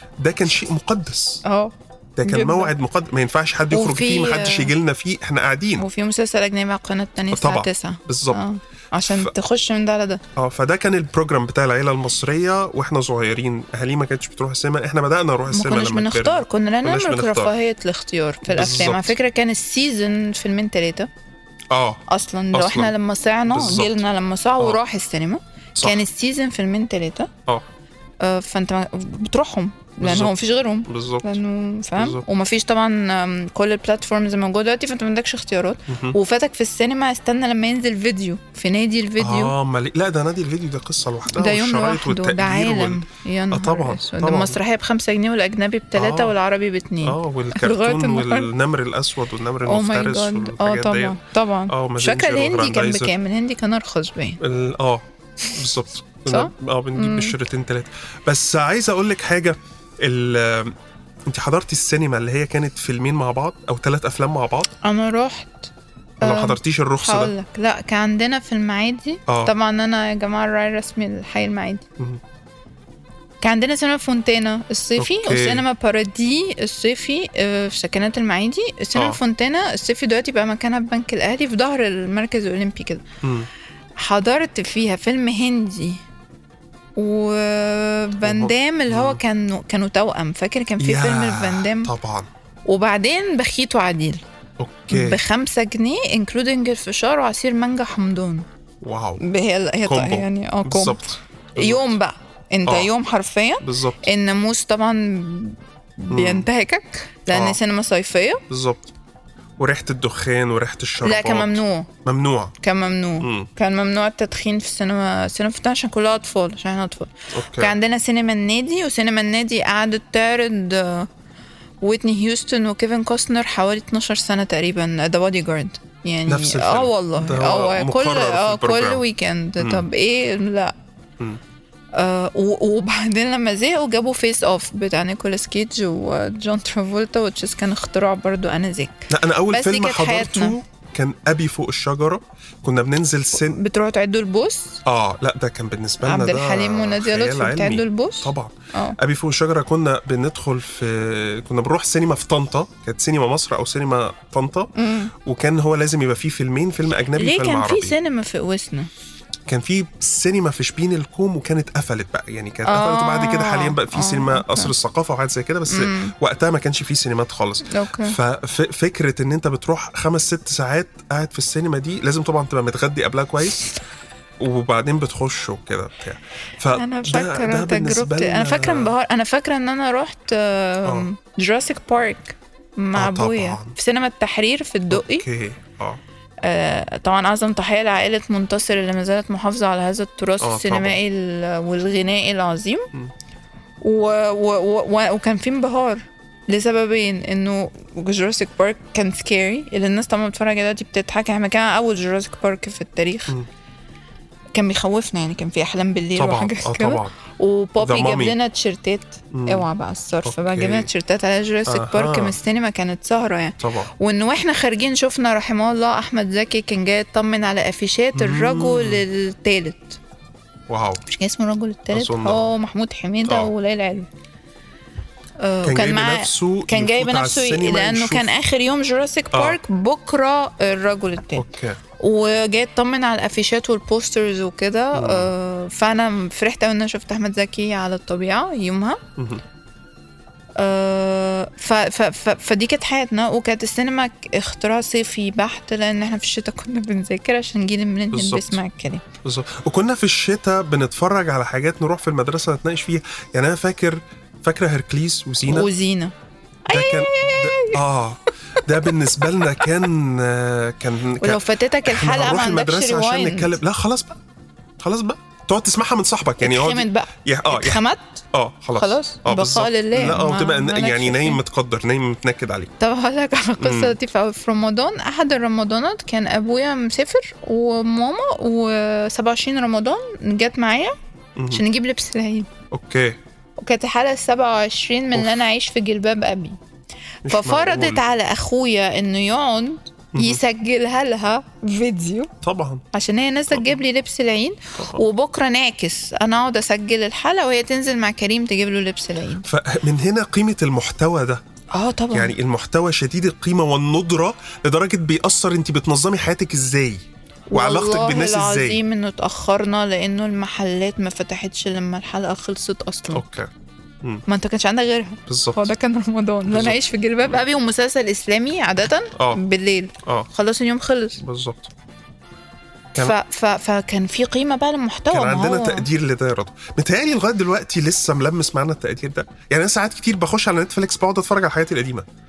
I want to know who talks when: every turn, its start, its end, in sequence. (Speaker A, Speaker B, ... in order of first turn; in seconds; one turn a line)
Speaker A: 0.2-1.4
Speaker B: 1.4-2.7
Speaker A: 2.2-5.9
Speaker B: 3.7-4.7
Speaker B: 5.8-10.2
Speaker A: 7.3-8.4
Speaker A: 9.0-9.3
Speaker A: 10.3-17.5
Speaker B: 15.5-21.1
Speaker A: 18.5-19.1
Speaker A: 21.7-22.0
Speaker B: 22.1-27.3
Speaker A: 22.5-22.9
Speaker A: 23.5-24.0
Speaker B: 28.2-39.5
Speaker A: 30.0-30.3
Speaker A: 30.9-31.4
Speaker A: 31.9-32.2
Speaker A: 35.9-36.2
Speaker A: 39.2-44.6
Speaker B: 41.3-48.5
Speaker A: 45.9-46.3
Speaker A: 47.0-53.1
Speaker B: 49.6-54.4
Speaker A: 54.4-60.8
Speaker B: 56.3-57.4
Speaker A: 61.3-64.7
Speaker B: 64.8-71.8
Speaker A: 66.2-67.3
Speaker A: 69.3-69.5
Speaker B: 73.4-83.0
Speaker A: 75.0-75.6
Speaker A: 78.9-79.2
Speaker A: 83.2-83.5
Speaker B: 84.0-86.0
Speaker B: 87.0-91.9
Speaker A: 88.2-89.2
Speaker A: 90.8-92.3
Speaker B: 92.7-94.2
Speaker A: 94.6-95.2
Speaker B: 94.9-98.5
Speaker A: 98.8-99.2
Speaker B: 99.2-108.4
Speaker A: 99.8-101.9
Speaker A: 102.7-102.9
Speaker A: 103.6-104.0
Speaker A: 106.1-106.5
Speaker A: 107.3-107.6
Speaker A: 108.5-108.9
Speaker A: 109.6-112.5
Speaker B: 111.0-111.9
Speaker B: 112.6-121.1
Speaker A: 113.2-113.5
Speaker A: 117.3-117.7
Speaker B: 121.8-130.7
Speaker A: 126.3-129.0
Speaker A: 129.6-129.8
Speaker B: 131.9-140.6
Speaker A: 139.1-143.6
Speaker B: 143.4-144.8
Speaker A: 144.8-157.9
Speaker B: 146.0-149.0
Speaker B: 154.7-155.1
Speaker B: 157.1-158.9
Speaker A: 159.5-173.7
Speaker B: 162.6-164.7
Speaker B: 165.7-166.1
Speaker B: 167.7-168.2
Speaker A: 174.4-178.9
Speaker B: 176.7-185.2
Speaker A: 182.9-183.8
Speaker A: 184.9-186.0
Speaker B: 186.4-192.9
Speaker A: 190.4-191.0
Speaker B: 193.8-203.3
Speaker B: 204.5-220.0
Speaker A: 206.2-207.2
Speaker A: 207.8-208.3
Speaker A: 209.3-209.7
Speaker A: 210.2-210.9
Speaker A: 211.7-212.4
Speaker A: 213.6-213.9
Speaker A: 218.1-219.1
Speaker A: 220.7-221.0
Speaker B: 221.1-224.1
Speaker A: 221.9-222.5
Speaker A: 223.2-223.5
Speaker B: 225.4-231.4
Speaker A: 225.6-228.3
Speaker A: 229.3-229.6
Speaker A: 231.3-231.8
Speaker B: 232.0-239.0
Speaker A: 234.9-235.3
Speaker A: 239.2-239.4
Speaker B: 240.6-249.0
Speaker A: 248.1-248.6
Speaker A: 249.2-255.7
Speaker B: 255.4-256.1
Speaker B: 256.7-257.8
Speaker A: 256.7-264.1
Speaker B: 258.7-259.7
Speaker B: 261.2-263.6
Speaker A: 264.8-272.7
Speaker B: 266.4-268.2
Speaker B: 268.8-271.4
Speaker B: 272.8-280.9
Speaker A: 273.6-273.9
Speaker A: 281.4-281.6
Speaker B: 281.5-282.5
Speaker A: 282.7-283.2
Speaker B: 283.6-286.6
Speaker A: 287.2-288.0
Speaker B: 287.2-292.3
Speaker A: 290.1-290.4
Speaker A: 292.4-292.8
Speaker B: 292.9-299.5
Speaker A: 293.5-293.8
Speaker A: 294.8-295.0
Speaker A: 299.4-301.4
Speaker B: 301.7-302.3
Speaker A: 302.1-308.8
Speaker B: 307.5-313.2
Speaker A: 313.1-313.5
Speaker B: 314.2-321.2
Speaker A: 315.3-315.7
Speaker A: 316.5-317.4
Speaker A: 319.1-319.4
Speaker A: 320.0-320.3
Speaker A: 321.2-321.7
Speaker B: 322.9-325.9
Speaker A: 325.1-332.1